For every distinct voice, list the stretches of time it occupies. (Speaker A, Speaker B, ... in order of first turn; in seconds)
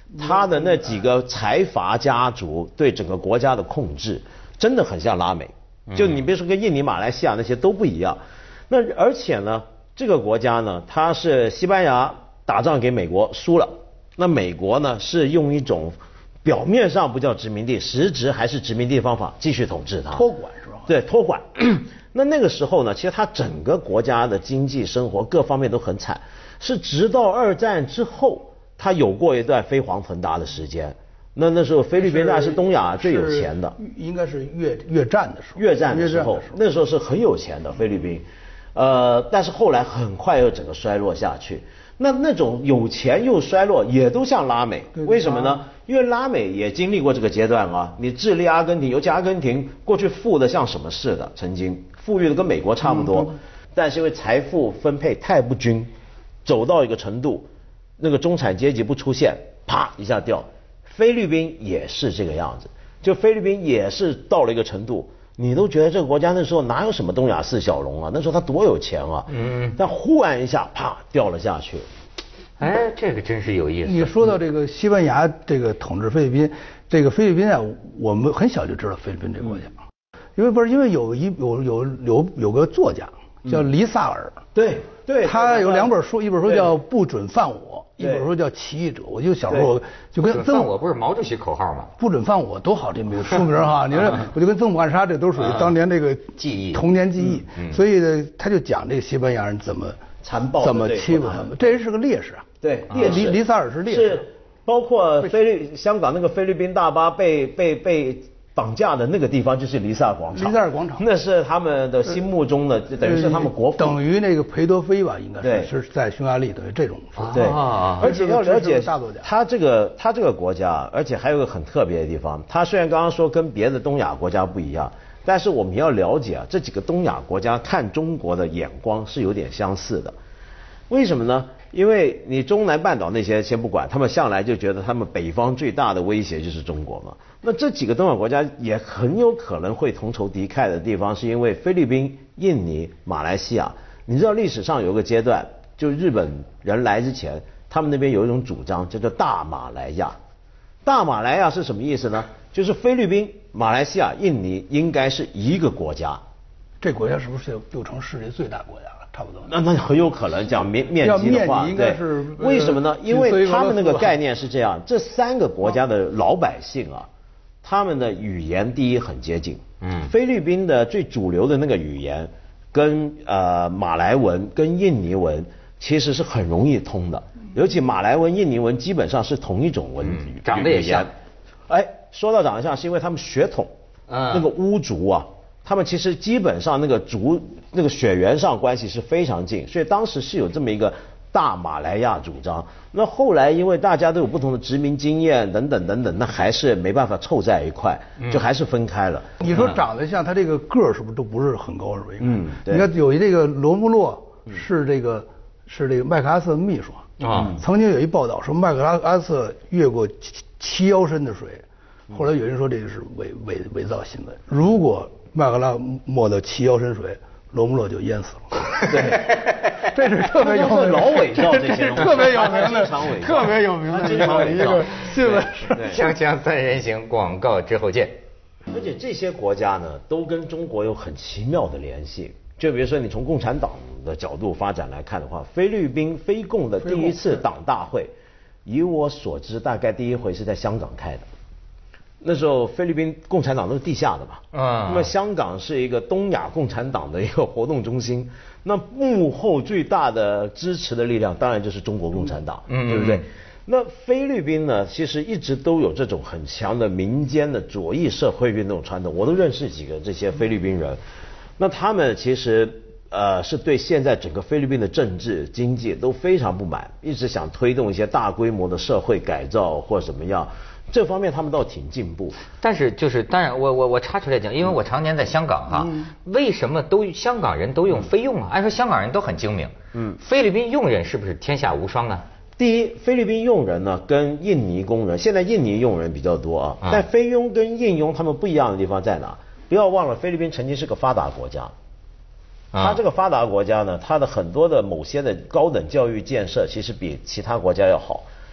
Speaker A: 0.1-0.9, 20.1-20.9, 32.0-36.6, 45.0-45.6, 73.8-79.8, 80.4-84.4, 85.2-90.7, 92.0-100.0, 100.6-104.2, 110.3-111.0, 113.0-119.3, 156.8-159.5, 161.0-164.2, 199.4-218.9, 219.9-226.0, 236.8-237.4
Speaker B: 0.2-20.3, 20.9-33.8, 35.6-55.9, 56.4-71.9, 84.5-85.9, 88.0-88.3, 100.2-101.7, 102.6-114.0, 115.4-115.7, 117.3-130.2, 130.9-150.2, 150.8-156.2, 159.4-167.1, 167.6-181.1, 181.7-183.7, 184.3-199.4, 202.2-202.9, 207.3-207.6, 218.8-219.4, 220.3-226.1, 228.7-238.1, 238.6-241.3, 242.2-261.0, 261.6-272.4, 282.6-291.7, 292.8-298.3
Speaker C: 5.9-6.2, 69.3-69.8, 72.6-74.2, 90.2-91.9, 95.4-95.7, 96.4-96.8, 102.9-103.2, 117.2-118.1, 169.8-170.1, 180.1-181.1, 184.1-184.5, 198.2-198.5, 199.5-199.8, 207.2-207.6, 218.8-219.8, 224.1-228.2, 244.5-245.1, 252.7-253.2, 272.6-282.2, 292.7-293.0